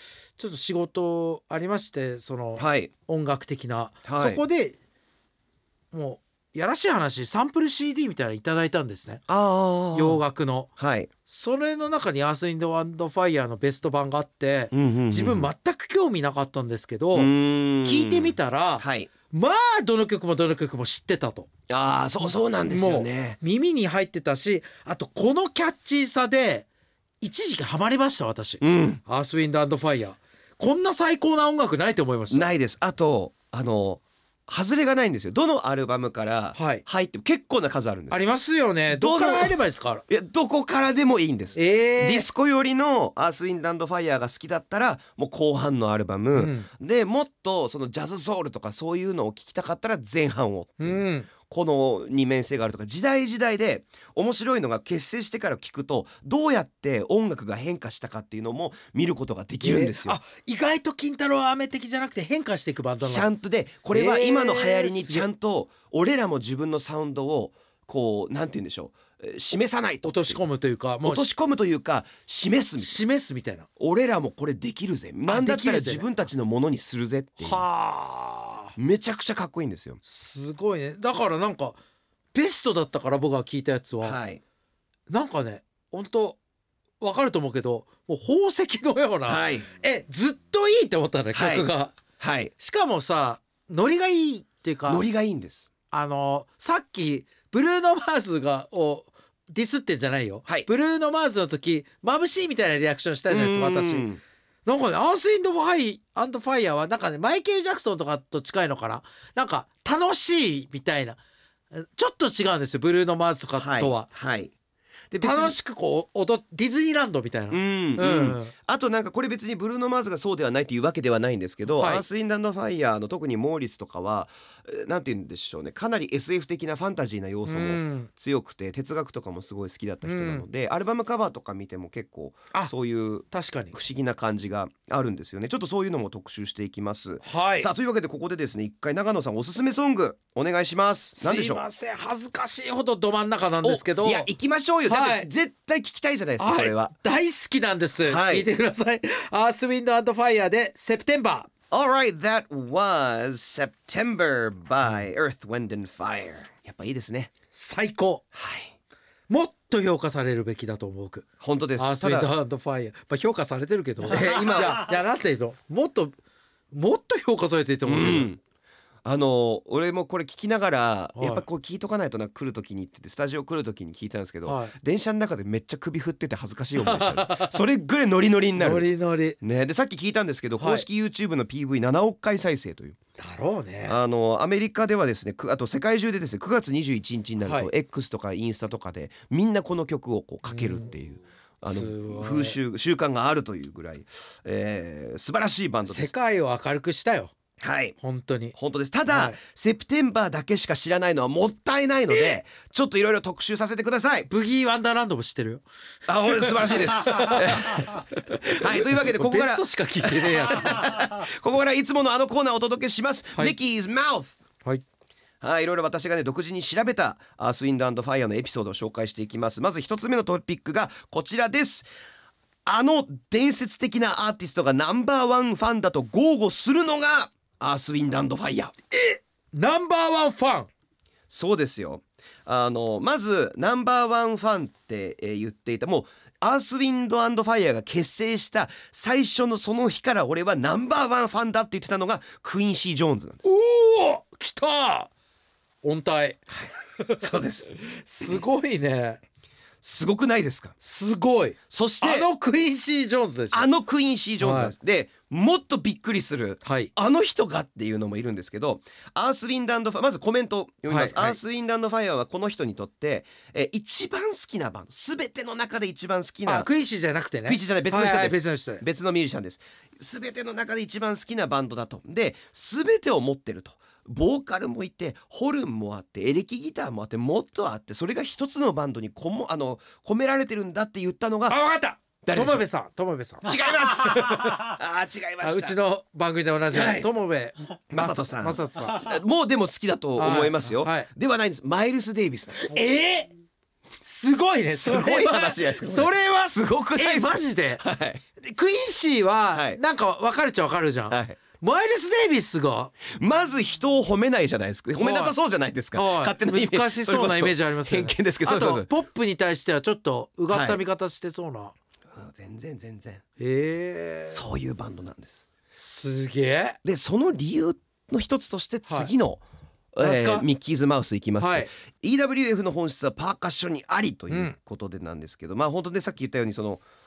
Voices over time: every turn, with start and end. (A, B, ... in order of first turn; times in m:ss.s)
0:00.4-0:04.8 A
0:02.6-0:02.9 B
0:04.0-0:04.4 B
0:05.9-0:09.3 A
0:09.3-0:10.2 B
0:09.9-0:10.7 A
0:10.8-0:11.1 B
0:11.3-0:17.3 A
0:14.7-0:15.5 B
0:17.1-0:19.1 B
0:17.8-0:21.5 A
0:21.7-0:23.4 B
0:22.2-0:26.7 A
0:27.2-0:32.5 A
0:28.6-0:29.0 B
0:32.3-0:38.2 B
0:36.6-0:36.8 A
0:38.1-0:40.0 A
0:38.9-1:00.2 B
0:41.6-0:42.3 A
0:46.4-0:46.7 A
0:50.8-0:51.3 A
0:59.6-1:03.3 A
1:03.0-1:10.4 B
1:03.9-1:05.3 A
1:10.0-1:11.3 A
1:11.0-1:13.0 B
1:12.8-1:13.7 A
1:13.8-1:17.6 B
1:15.3-1:16.1 A
1:17.4-1:18.8 A
1:18.8-1:20.0 B
1:20.0-1:21.8 A
1:22.3-1:24.2 A
1:24.0-1:24.4 B
1:25.1-1:26.4 A
1:27.0-1:32.0 A
1:29.3-1:29.7 B
1:31.3-1:32.5 B
1:32.6-1:35.0 A
1:34.9-1:35.7 B
1:35.9-1:44.1 A
1:43.3-1:44.2 B
1:44.7-1:51.2 A
1:51.7-1:54.1 A
1:53.6-1:54.5 B
1:55.1-1:55.6 B
1:55.2-1:58.5 A
1:57.5-2:21.6 B
2:01.7-2:02.0 A
2:07.5-2:08.1 A
2:10.0-2:10.5 A
2:13.3-2:13.7 A
2:17.2-2:17.7 A
2:21.2-2:24.3 A
2:23.6-2:26.9 B
2:24.9-2:25.3 A
2:26.4-2:31.5 A
2:28.0-2:28.5 B
2:31.7-2:37.3 B
2:37.5-2:38.2 A
2:38.3-2:38.7 B
2:39.3-2:41.3 A
2:41.4-2:42.3 B
2:41.8-2:46.2 A
2:44.1-2:44.9 B
2:46.7-2:48.3 A
2:47.9-2:48.4 B
2:49.0-3:03.0 B
2:51.2-2:51.4 A
2:54.5-2:54.8 A
2:56.8-2:57.6 A
2:58.6-2:59.4 A
3:00.6-3:00.9 A
3:03.2-3:04.0 A
3:03.9-3:16.2 B
3:07.4-3:07.7 A
3:10.4-3:10.9 A
3:11.7-3:12.6 A
3:15.9-3:17.3 A
3:17.6-3:18.0 B
3:18.0-3:18.6 A
3:18.6-3:24.3 B
3:19.1-3:19.4 A
3:22.1-3:22.4 A
3:24.3-3:25.6 A
3:26.1-3:34.4 B
3:26.3-3:31.0 A
3:35.4-3:41.9 B
3:42.7-3:48.7 B
3:48.9-3:50.7 A
3:51.3-4:03.4 B
4:03.4-4:05.1 A
4:05.8-4:06.4 A
4:06.5-4:08.4 B
4:07.0-4:09.2 A
4:09.8-4:10.8 B
4:10.8-4:13.7 A
4:11.7-4:12.3 B
4:13.5-4:26.7 B
4:14.4-4:14.7 A
4:16.6-4:16.9 A
4:20.9-4:21.4 A
4:26.5-4:28.8 A
4:27.5-4:41.6 B
4:41.5-4:44.7 A
4:42.2-4:42.6 B
4:43.4-4:45.8 B
4:45.4-4:49.2 A
4:46.7-4:47.1 B
4:47.9-4:52.7 B
4:50.2-4:51.1 A
4:52.6-4:53.3 A
4:54.0-4:57.8 A
4:54.7-4:58.2 B
4:58.4-5:02.9 A
4:59.5-4:59.8 B
5:01.1-5:01.4 B
5:03.1-5:08.9 B
5:05.0-5:05.3 A
5:05.9-5:11.7 A
5:10.5-5:10.8 B
5:12.1-5:13.2 B
5:13.4-5:14.5 A
5:14.3-5:15.4 B
5:15.8-5:16.8 A
5:16.8-5:19.4 B
5:18.9-5:19.1 A
5:20.0-5:26.8 B
5:20.0-5:20.5 A
5:21.4-5:21.7 A
5:24.3-5:24.6 A